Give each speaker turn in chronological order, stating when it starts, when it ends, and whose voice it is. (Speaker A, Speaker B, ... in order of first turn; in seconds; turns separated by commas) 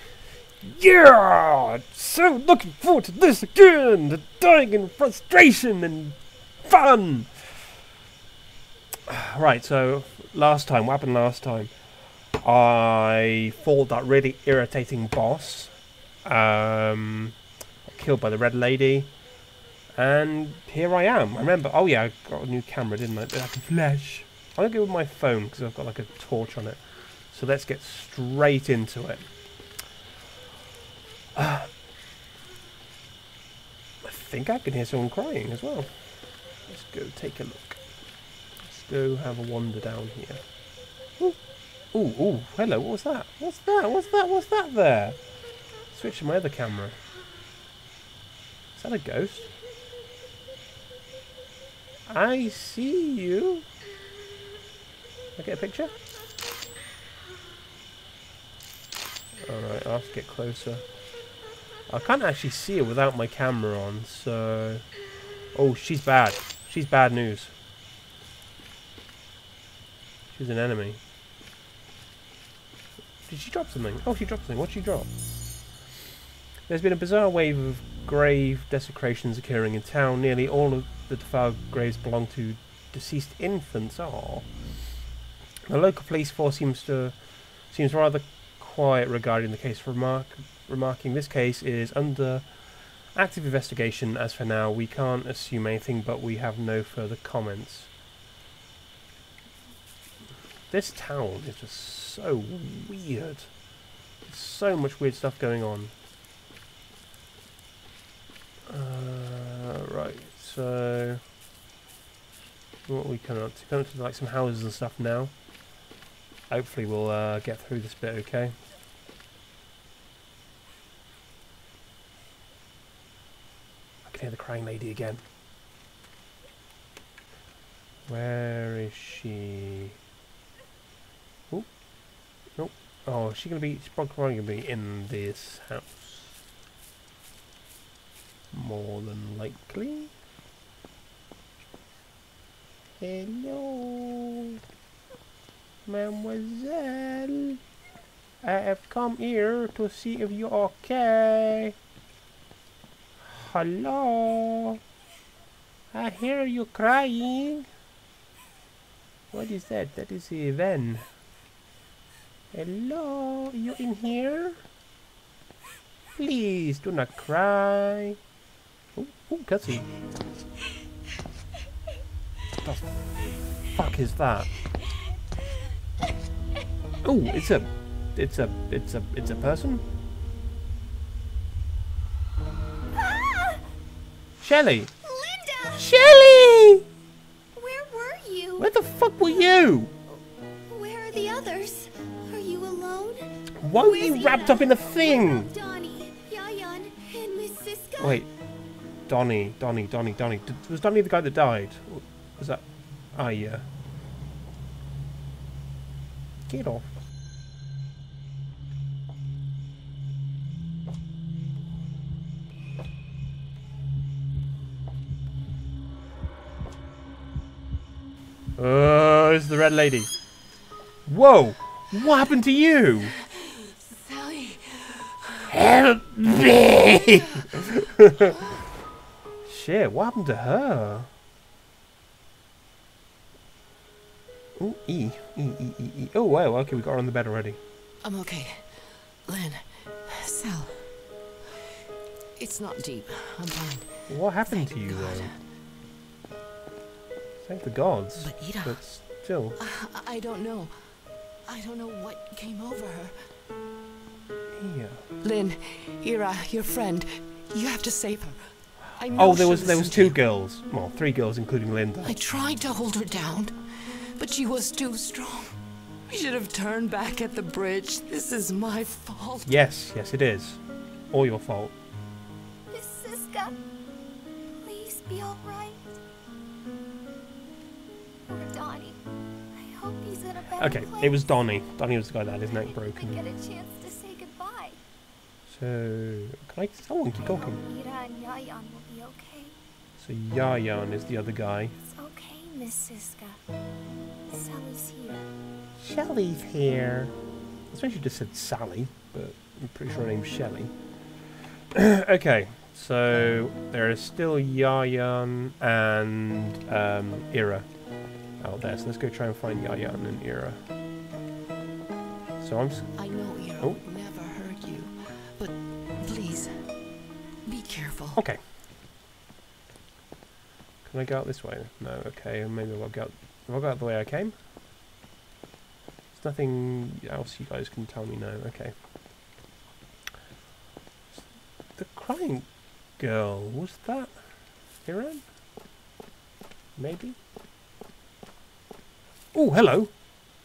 Speaker A: 0.6-7.7, Speaker A: 9.1-11.7, Speaker A: 12.3-19.1, Speaker A: 19.9-29.3, Speaker A: 31.3-31.7, Speaker A: 34.0-37.8, Speaker A: 38.6-40.4, Speaker A: 41.9-45.2, Speaker A: 45.9-47.0, Speaker A: 48.8-49.5, Speaker A: 52.1-53.7, Speaker A: 55.4-55.9, Speaker A: 59.4-60.8, Speaker A: 61.9-64.8, Speaker A: 65.5-67.5, Speaker A: 70.3-71.0, Speaker A: 73.2-75.1, Speaker A: 76.7-84.5, Speaker A: 85.7-87.2, Speaker A: 87.7-97.9, Speaker A: 100.7-103.5, Speaker A: 104.3-105.9, Speaker A: 108.7-111.2, Speaker A: 112.9-115.3, Speaker A: 116.5-118.5, Speaker A: 124.0-125.2, Speaker A: 128.1-130.0, Speaker A: 132.6-136.4, Speaker A: 138.5-140.1, Speaker A: 143.0-144.6, Speaker A: 145.9-147.6, Speaker A: 148.4-151.8, Speaker A: 153.2-154.8, Speaker A: 155.9-157.7, Speaker A: 159.3-161.1, Speaker A: 162.5-164.6, Speaker A: 166.2-168.2, Speaker A: 168.9-169.9, Speaker A: 172.6-172.9, Speaker A: 173.7-174.5, Speaker A: 177.0-179.9, Speaker B: 182.9-183.6, Speaker A: 184.4-184.9, Speaker B: 185.0-186.5, Speaker A: 185.8-186.8, Speaker B: 187.5-188.7, Speaker A: 188.6-189.9, Speaker B: 189.2-198.2, Speaker A: 193.6-195.5, Speaker A: 198.0-198.3, Speaker A: 199.1-203.6, Speaker A: 206.5-206.9, Speaker A: 218.6-220.1, Speaker A: 221.1-223.1, Speaker C: 223.2-225.6, Speaker A: 225.5-228.4, Speaker C: 227.0-227.6, Speaker C: 228.3-228.6, Speaker A: 229.4-231.1, Speaker A: 234.6-237.6, Speaker C: 238.0-240.9, Speaker C: 242.4-245.4, Speaker A: 244.1-245.3, Speaker A: 247.4-249.6, Speaker C: 248.2-248.8, Speaker C: 249.6-253.2, Speaker A: 254.5-255.0, Speaker C: 255.2-260.2, Speaker A: 259.1-262.2, Speaker C: 262.0-269.5, Speaker A: 269.5-271.7, Speaker B: 272.7-273.6, Speaker B: 274.6-275.9, Speaker B: 278.3-279.0, Speaker B: 279.5-281.3, Speaker A: 280.6-283.2, Speaker B: 282.5-284.8, Speaker A: 285.5-287.6, Speaker B: 287.6-289.6, Speaker A: 290.0-291.8, Speaker B: 291.8-293.4, Speaker B: 294.3-295.2, Speaker A: 295.8-297.1, Speaker A: 297.7-300.7, Speaker A: 301.7-307.7, Speaker A: 308.4-310.6, Speaker A: 312.4-312.9, Speaker C: 312.9-316.6, Speaker C: 317.5-318.2, Speaker A: 318.1-318.4, Speaker A: 320.8-324.3, Speaker A: 326.1-328.7, Speaker A: 331.1-334.2, Speaker A: 334.9-335.2, Speaker A: 336.8-337.2, Speaker A: 339.3-339.9